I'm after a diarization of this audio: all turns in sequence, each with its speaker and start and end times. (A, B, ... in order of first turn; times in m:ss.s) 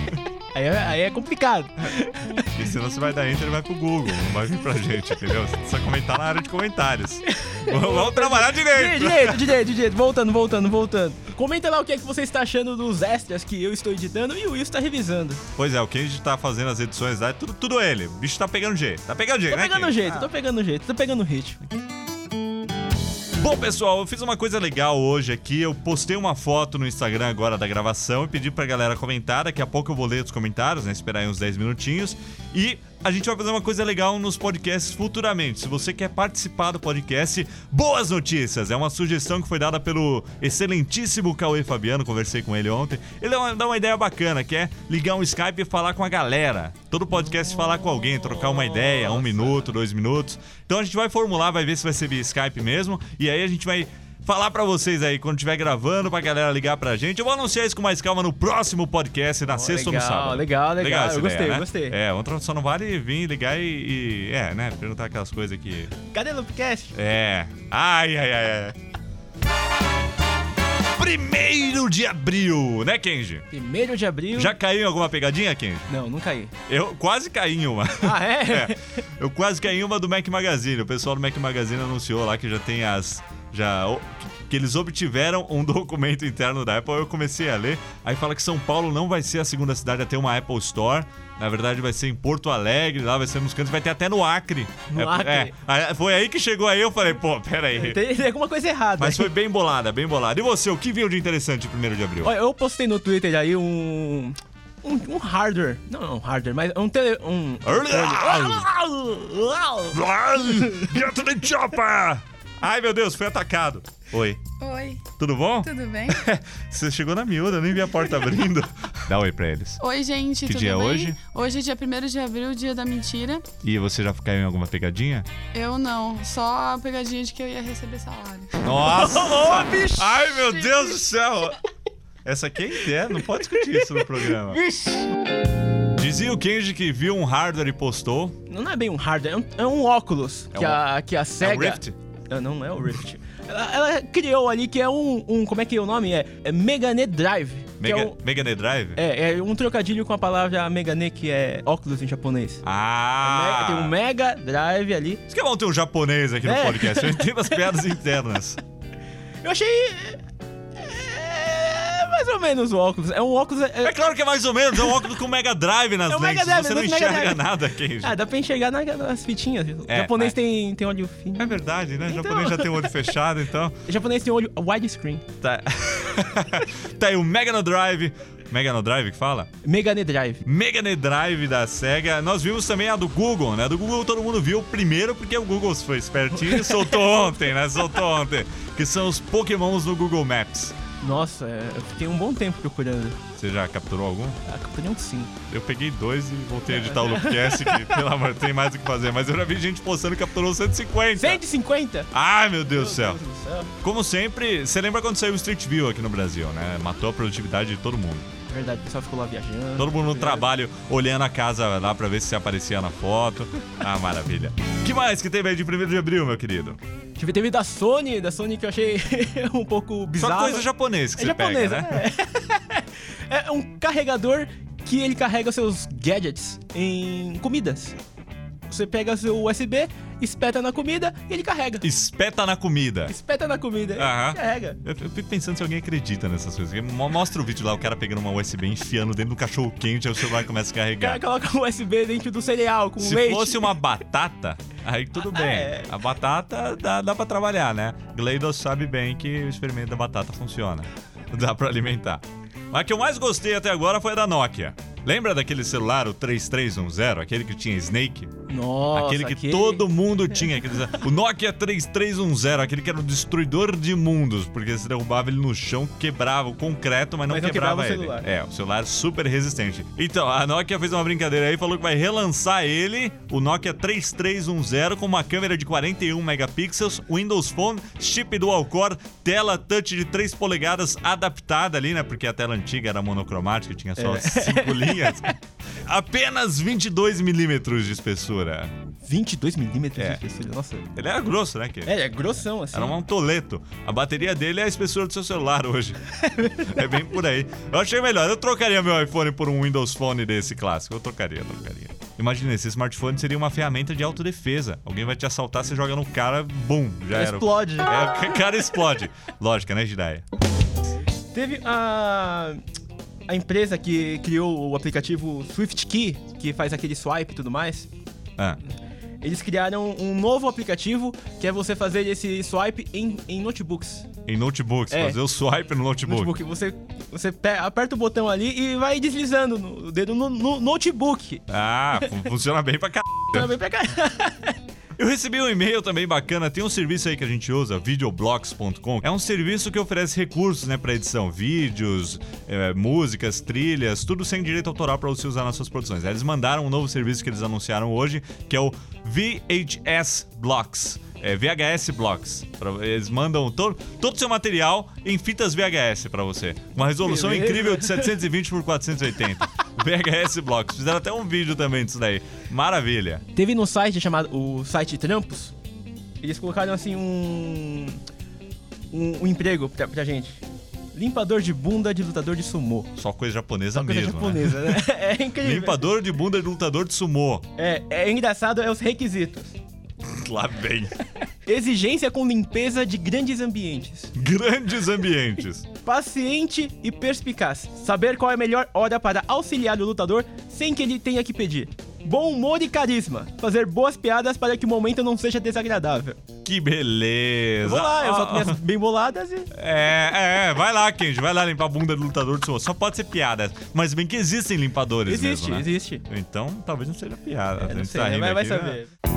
0:00.5-0:02.5 A
0:02.5-0:09.6 B
0:07.3-0:15.4 A
0:15.6-0:20.3 B
0:19.5-0:21.6 A
0:23.4-1:05.9 B
0:48.7-0:49.6 A
0:59.5-1:02.0 A
1:06.1-1:07.0 A
1:06.9-1:08.8 B
1:11.0-1:13.4 B
1:13.5-1:14.6 A
1:14.3-1:15.9 B
1:15.9-1:16.5 A
1:16.7-1:38.0 B
1:18.0-1:19.0 A
1:34.9-1:35.5 A
1:37.7-1:39.3 A
1:39.0-1:42.3 B
1:42.2-1:48.7 A
1:47.6-1:54.5 B
1:49.4-1:49.9 A
1:54.6-1:55.1 C
1:55.2-1:59.8 B
1:55.6-1:56.2 C
1:59.8-2:03.4 C
2:00.4-2:01.2 B
2:03.6-2:05.3 B
2:05.5-2:08.6 C
2:08.6-2:11.6 B
2:08.8-2:10.6 A
2:12.2-2:14.6 B
2:14.6-2:15.0 A
2:15.9-2:18.4 B
2:18.5-2:28.1 A
2:20.5-2:20.8 B
2:21.4-2:22.0 B
2:27.8-2:29.0 B
2:29.0-2:32.6 A
2:32.6-2:33.9 B
2:33.2-2:35.2 A
2:35.3-2:38.6 B
2:36.4-2:37.6 A
2:39.4-2:40.2 A
2:40.8-2:44.0 A
2:43.8-2:48.1 B
2:46.1-2:53.0 A
2:49.9-2:50.3 B
2:51.4-2:53.7 B
2:53.8-2:55.2 A
2:55.4-2:59.5 B
2:59.6-3:00.4 A
3:00.4-3:10.8 B
3:06.4-3:06.9 A
3:11.0-3:13.2 A
3:13.4-3:14.4 B
3:14.4-3:15.3 A
3:15.5-3:21.4 B
3:16.7-3:18.0 A
3:21.2-3:22.1 A
3:22.1-3:23.2 B
3:22.7-3:23.7 A
3:23.8-3:28.3 B
3:28.5-3:30.4 A
3:29.8-3:36.8 B
3:37.2-3:48.0 A
3:40.1-3:42.0 B
3:48.7-3:51.8 A
3:51.8-3:53.1 B
3:53.1-3:54.8 A
3:54.0-4:01.2 B
4:01.0-4:03.8 A
4:03.0-4:18.3 B
4:05.2-4:05.9 A
4:18.5-4:19.8 A
4:18.9-4:48.7 B
4:27.3-4:28.2 A
4:44.0-4:45.3 A
4:49.0-4:50.9 A
4:50.0-4:50.2 B
4:50.9-4:52.0 B
4:51.8-4:53.0 A
4:52.7-5:10.2 B
4:56.1-4:56.9 A
5:07.1-5:08.0 A
5:11.3-5:12.6 A
5:13.3-5:17.9 A
5:19.2-5:24.1 A
5:24.2-5:26.3 B
5:24.9-5:25.2 A
5:26.0-5:32.2 A
5:31.5-5:33.5 B
5:33.3-5:34.6 A
5:35.0-6:03.2 B
5:57.0-5:58.2 A
6:03.3-6:05.5 A
6:06.2-6:08.0 A
6:08.9-6:12.9 A
6:13.0-6:17.4 B
6:13.7-6:15.9 A
6:17.6-6:19.6 A
6:20.0-6:20.9 B
6:21.4-6:24.1 A
6:24.1-6:25.6 B
6:25.8-6:36.2 A
6:36.4-6:38.6 B
6:37.6-6:39.5 A
6:39.5-6:48.8 B
6:45.0-6:46.0 A
6:47.6-6:48.9 A